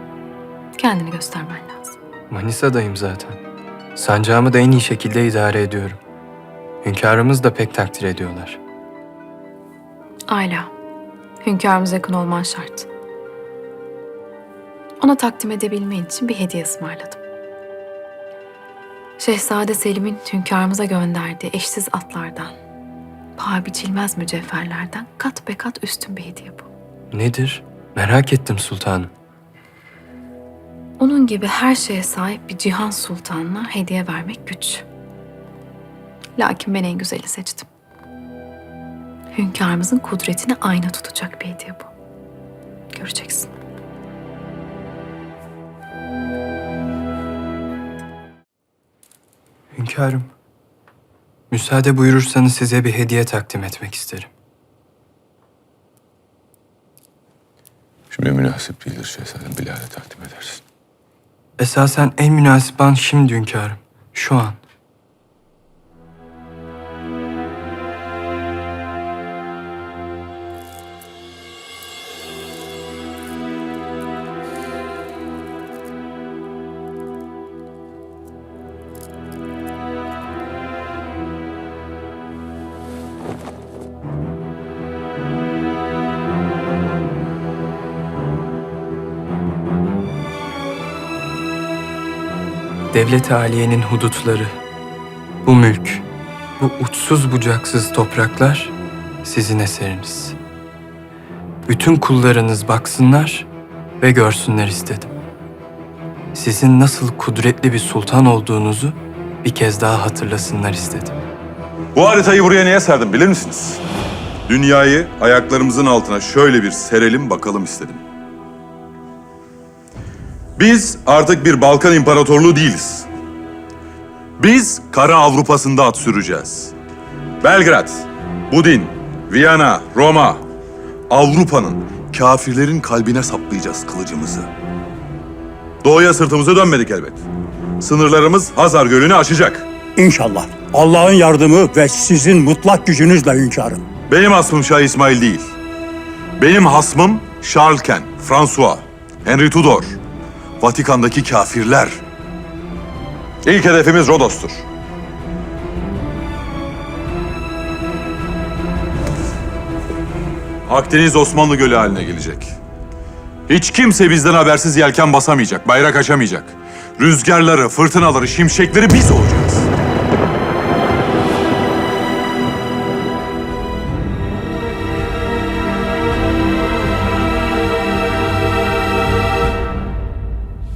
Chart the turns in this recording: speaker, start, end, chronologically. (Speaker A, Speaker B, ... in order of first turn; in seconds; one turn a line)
Speaker A: 0.8-2.0
Speaker B: 2.3-3.4
Speaker B: 3.9-6.0
Speaker B: 6.8-8.6
Speaker A: 10.3-10.7
Speaker A: 11.4-12.9
Speaker A: 15.0-17.2
Speaker A: 19.2-22.5
Speaker A: 23.4-26.7
Speaker B: 27.1-29.1
Speaker A: 31.0-34.8
Speaker A: 36.4-37.7
Speaker A: 39.3-41.9
Speaker A: 42.9-43.5
Speaker B: 49.7-50.3
Speaker B: 51.5-54.3
Speaker C: 58.1-60.6
Speaker B: 61.6-64.6
Speaker B: 92.9-94.6
Speaker B: 95.4-96.0
Speaker B: 96.6-100.4
Speaker B: 101.7-103.5
Speaker B: 104.0-105.1
Speaker B: 106.3-111.2
Speaker D: 112.0-113.8
Speaker D: 114.5-118.0
Speaker D: 120.6-123.1
Speaker D: 124.4-126.7
Speaker D: 127.4-130.4
Speaker D: 131.1-134.5
Speaker D: 135.8-137.2
Speaker D: 137.8-139.7
Speaker E: 140.0-143.8
Speaker D: 144.1-145.5
Speaker D: 146.4-150.0
Speaker D: 150.6-152.0
Speaker D: 153.4-154.6
Speaker D: 160.7-162.5
Speaker D: 163.5-169.7